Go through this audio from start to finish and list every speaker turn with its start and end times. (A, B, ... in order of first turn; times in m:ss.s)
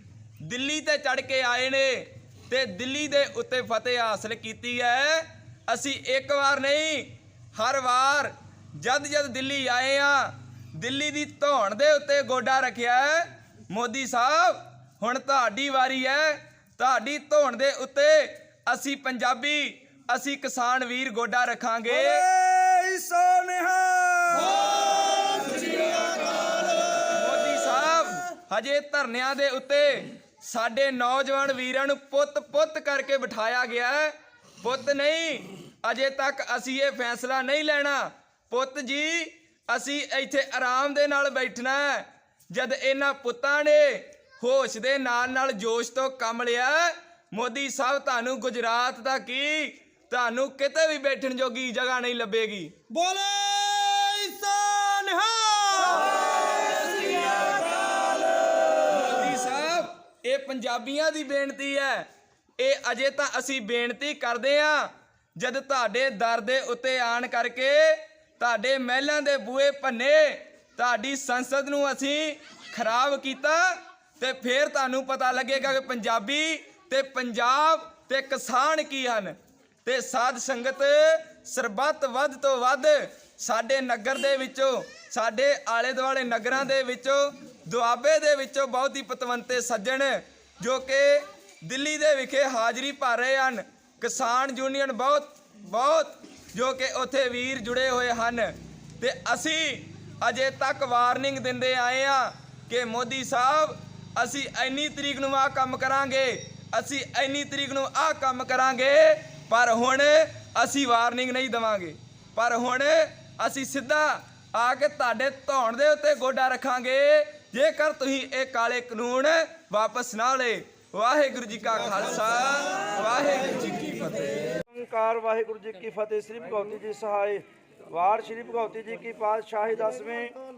0:00.4-0:22.2 A
0:21.9-0:26.4 B
0:27.1-0:52.7 A
0:52.9-0:57.5 C
0:58.7-1:02.1 A
1:02.6-2:04.4 A
2:04.7-2:10.3 B